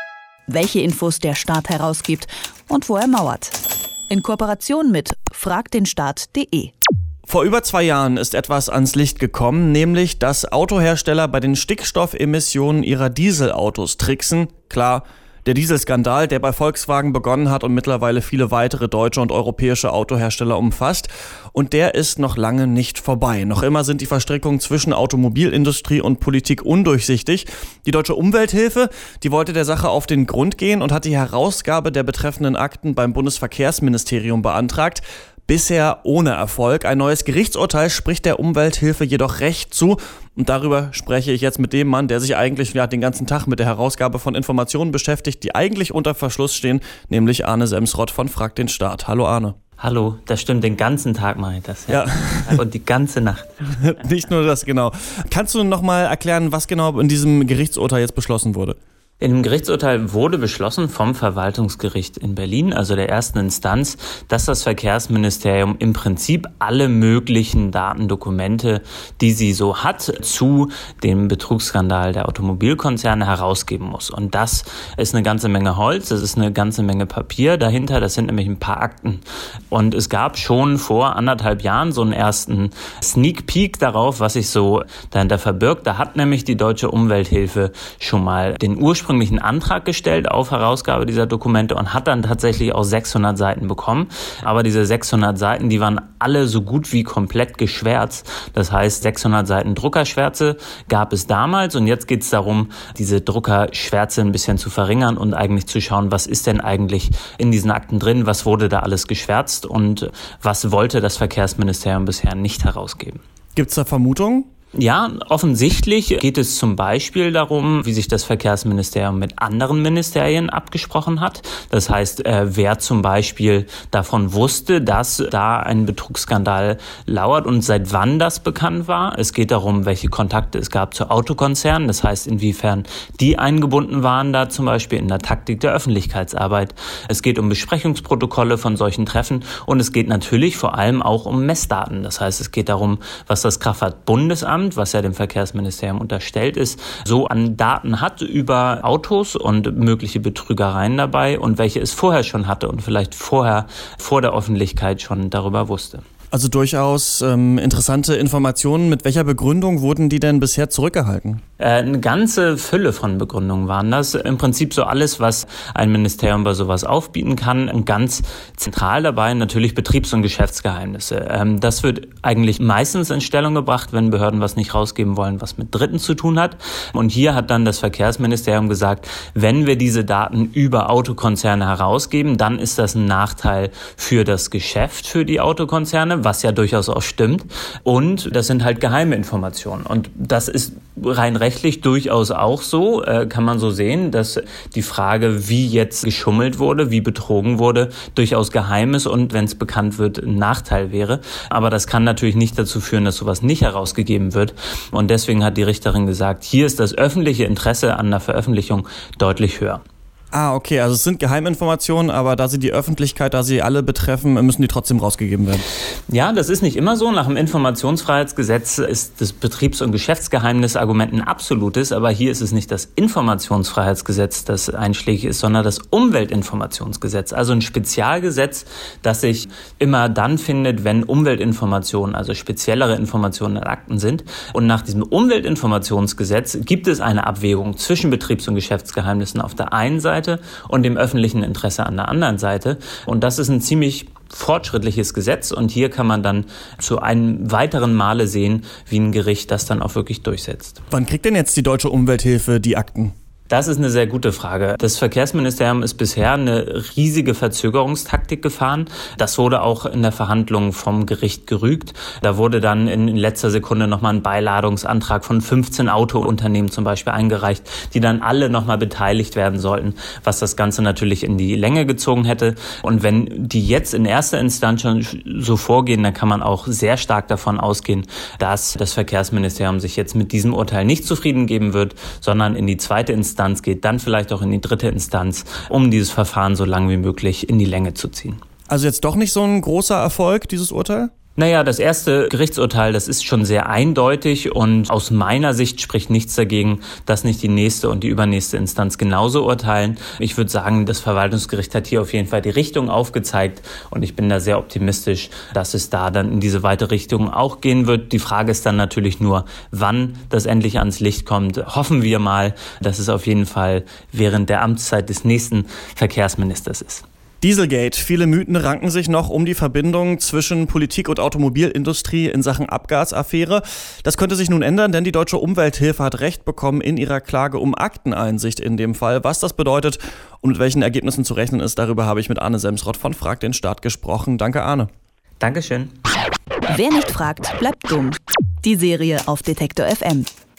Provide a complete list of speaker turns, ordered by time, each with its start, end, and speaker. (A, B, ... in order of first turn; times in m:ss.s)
0:00.5-0:03.6 A
0:04.1-0:06.7 A
0:07.3-0:49.6 B
0:49.8-0:53.7 C
0:51.9-0:52.6 B
0:53.7-0:58.8 B
0:59.2-1:53.2 C
1:53.5-1:54.5 B
1:54.7-2:36.0 C
2:36.3-2:41.4 B
2:41.6-3:29.8 C
3:30.3-3:35.6 B
3:36.1-4:10.8 C
4:10.9-4:13.1 B
4:13.5-4:48.4 C
4:48.7-4:51.1 B
4:51.4-5:17.0 C
5:17.4-5:34.9 B
5:35.4-5:35.9 C
5:36.7-5:40.3 A